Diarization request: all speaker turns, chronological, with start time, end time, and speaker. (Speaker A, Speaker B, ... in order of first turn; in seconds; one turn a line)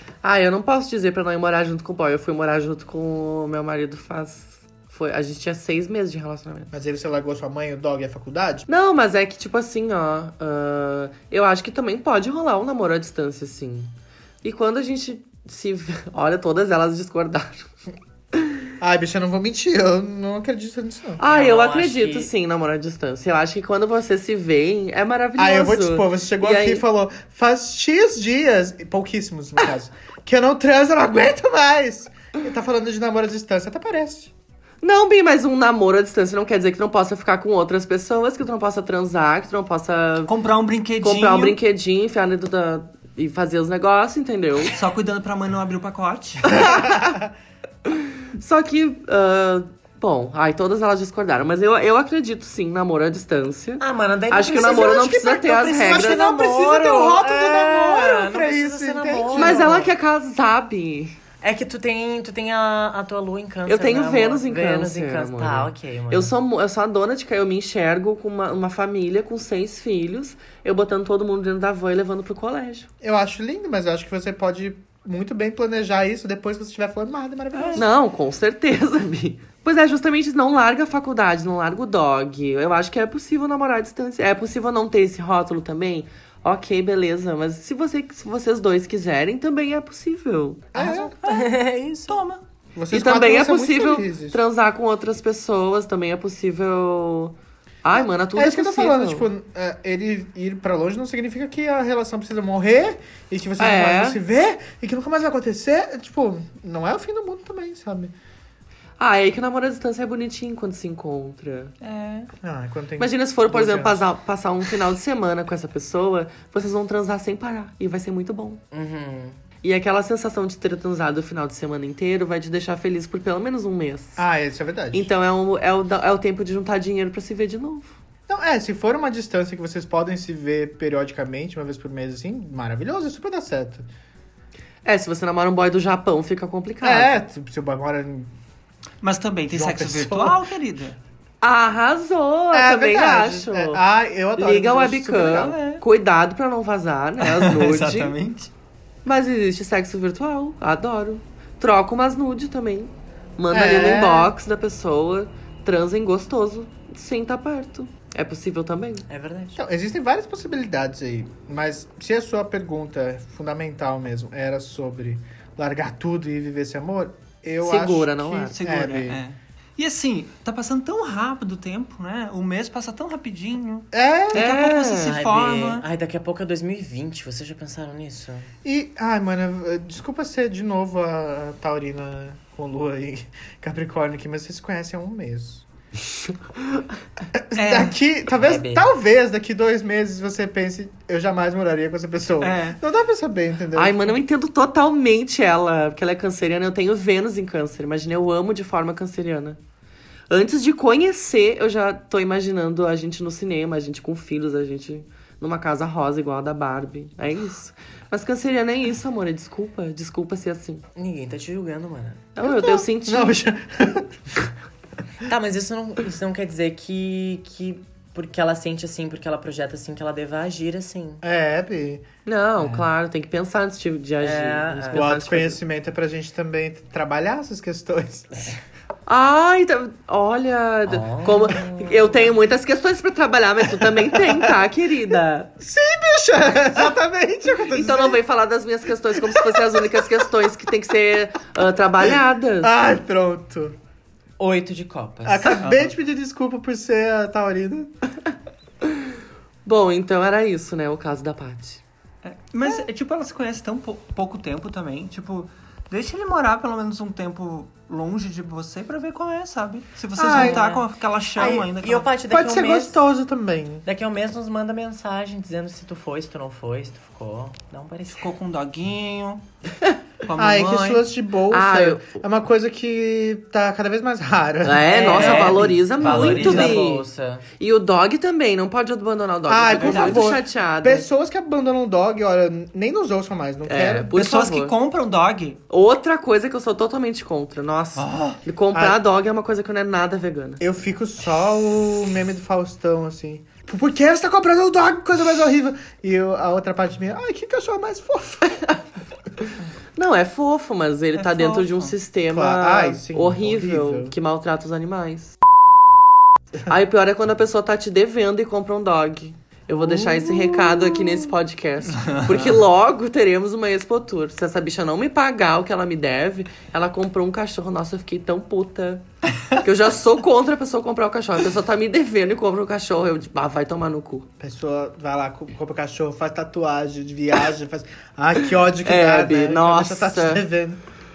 Speaker A: 0.2-6.7
Speaker B: 6.7-8.7
Speaker A: 8.7-13.9
Speaker A: 14.4-17.7
Speaker B: 18.8-21.2
Speaker A: 21.2-26.8
Speaker C: 21.2-22.3
Speaker B: 25.4-34.3
Speaker A: 34.8-40.3
Speaker D: 40.3-41.6
Speaker A: 41.0-44.7
Speaker D: 44.7-46.6
Speaker A: 46.5-47.2
Speaker B: 46.7-47.2
Speaker A: 48.4-56.2
Speaker C: 53.8-59.9
Speaker B: 54.5-59.9
Speaker A: 59.3-61.1
Speaker C: 61.4-66.3
Speaker A: 63.6-72.9
Speaker B: 73.0-77.9
Speaker A: 77.7-90.7
Speaker B: 90.7-91.1
Speaker C: 90.8-92.2
Speaker D: 90.8-91.5
Speaker D: 92.1-92.4
Speaker B: 92.7-94.4
Speaker A: 92.9-99.3
Speaker B: 97.9-108.1
Speaker A: 103.6-104.2
Speaker A: 109.0-111.7
Speaker D: 111.8-112.3
Speaker B: 112.4-114.0
Speaker A: 113.0-118.6
Speaker C: 118.7-119.4
Speaker A: 119.6-124.2
Speaker B: 124.2-125.1
Speaker A: 124.9-128.0
Speaker B: 128.3-133.8
Speaker A: 134.8-137.1
Speaker B: 136.8-138.3
Speaker D: 139.0-141.0
Speaker B: 139.5-140.4
Speaker A: 141.4-143.8
Speaker B: 142.5-145.6
Speaker A: 144.4-148.1
Speaker D: 145.3-145.8
Speaker D: 147.2-148.5
Speaker A: 149.0-159.0
Speaker B: 153.5-154.3
Speaker C: 159.1-159.6
Speaker B: 159.6-169.2
Speaker A: 167.6-168.5
Speaker D: 168.5-175.8
Speaker B: 173.9-174.5
Speaker A: 174.3-175.1
Speaker C: 175.0-178.5
Speaker B: 178.6-185.7
Speaker B: 187.3-194.2
Speaker D: 187.6-187.9
Speaker C: 188.4-188.9
Speaker D: 192.4-192.8
Speaker A: 193.7-199.6
Speaker A: 200.3-210.8
Speaker C: 210.9-212.2
Speaker A: 212.3-213.4
Speaker B: 212.4-214.2
Speaker C: 215.2-221.2
Speaker B: 221.2-222.0
Speaker A: 222.2-225.6
Speaker C: 222.6-222.9
Speaker C: 224.2-225.0
Speaker B: 224.9-228.6
Speaker A: 229.1-235.5
Speaker C: 230.9-232.3
Speaker B: 234.1-234.5
Speaker B: 235.6-238.2
Speaker A: 237.6-242.7
Speaker B: 239.2-240.3
Speaker B: 242.6-243.8
Speaker C: 244.4-245.6
Speaker B: 245.2-247.9
Speaker D: 245.6-245.9
Speaker A: 249.6-251.8
Speaker D: 252.2-262.1
Speaker B: 260.1-260.7
Speaker C: 260.3-263.0
Speaker B: 262.3-263.8
Speaker C: 263.8-268.3
Speaker D: 268.1-269.4
Speaker D: 270.2-271.0
Speaker B: 270.4-276.7
Speaker A: 271.5-272.2
Speaker A: 274.6-277.1
Speaker C: 274.9-277.4
Speaker D: 276.0-276.7
Speaker A: 277.6-281.1
Speaker B: 279.5-284.1
Speaker D: 279.7-280.4
Speaker A: 283.6-284.7
Speaker D: 284.1-285.6
Speaker A: 285.7-290.6
Speaker D: 287.9-288.4
Speaker B: 288.7-289.0
Speaker B: 290.6-298.8
Speaker A: 299.9-305.4
Speaker D: 301.1-301.9
Speaker B: 302.3-304.1
Speaker A: 306.6-324.3
Speaker B: 309.8-311.3
Speaker D: 311.9-312.6
Speaker B: 324.4-330.8
Speaker A: 328.8-330.4